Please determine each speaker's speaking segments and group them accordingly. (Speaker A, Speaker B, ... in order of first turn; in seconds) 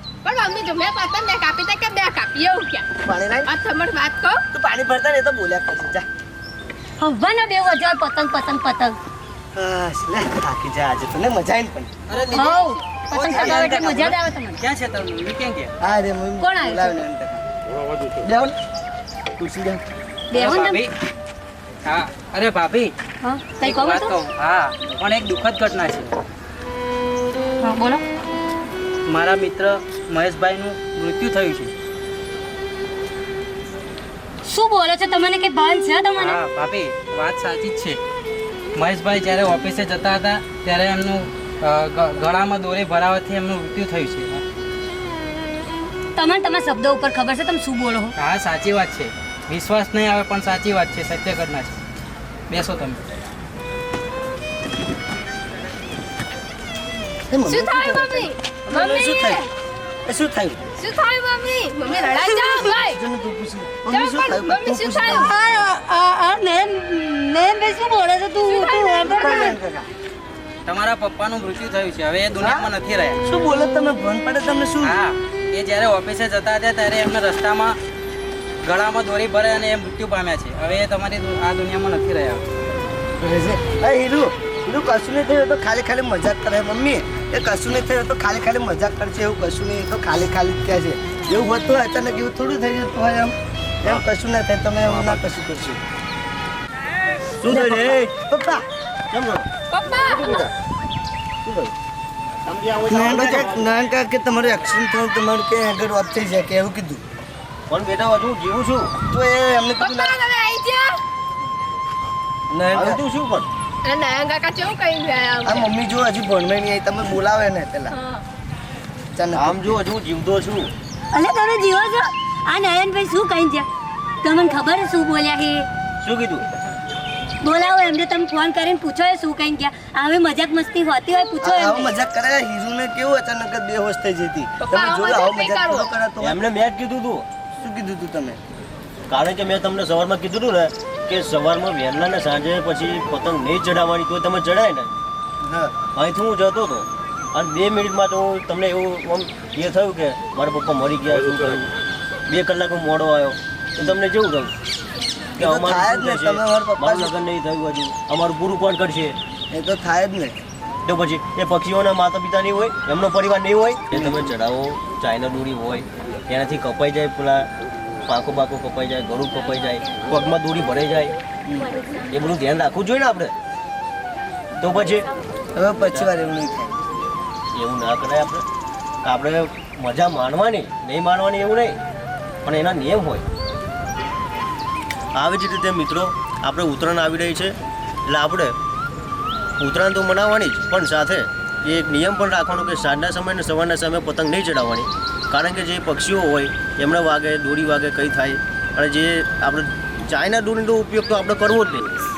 Speaker A: 0.2-2.9, 3.5-4.4, 57.5-59.5, 60.8-63.0, 63.9-65.3, 68.4-69.5, 99.7-100.5, 109.8-111.0, 113.8-115.7, 134.6-135.9
Speaker B: 3.0-3.5, 4.5-6.1, 9.6-11.9, 13.3-14.0, 15.8-17.5, 18.2-18.6, 19.4-19.8, 57.3-59.4, 60.1-60.6, 62.8-65.4, 69.0-69.9, 72.4-72.7, 73.2-75.0, 83.2-95.8, 97.5-98.7, 102.9-107.0, 109.1-110.2, 112.5-113.0, 115.5-118.0, 119.2-119.8, 131.4-136.4, 137.6-138.4, 145.4-145.8, 155.4-157.1, 159.5-160.4, 163.9-164.3, 175.6-176.8
Speaker C: 7.0-9.0, 12.3-14.6, 16.4-17.0, 20.3-20.8, 23.2-24.1, 27.6-28.0, 34.4-36.4, 46.1-48.1, 61.9-62.8, 65.0-69.4, 121.1-123.7, 124.2-125.7, 127.4-131.9
Speaker D: 12.1-15.7, 20.3-20.9, 21.9-22.9, 23.6-26.1, 29.1-31.7, 36.2-38.0, 38.8-44.4, 48.2-51.8, 52.5-53.0, 70.7-73.2, 74.8-77.8, 78.6-82.5
Speaker E: 94.9-95.2, 97.4-98.1, 99.1-99.5, 100.1-100.5, 101.5-101.7, 102.5-103.7, 107.7-109.0, 112.7-113.5, 119.3-120.7, 126.0-126.5, 136.2-137.3, 139.1-144.9, 145.8-151.7, 152.3-154.5, 155.4-159.2, 160.8-167.5, 168.1-171.2, 172.1-173.3, 174.6-175.1, 177.5-178.4, 179.1-181.8, 182.4-183.2, 185.2-187.6, 188.1-188.5, 189.6-201.9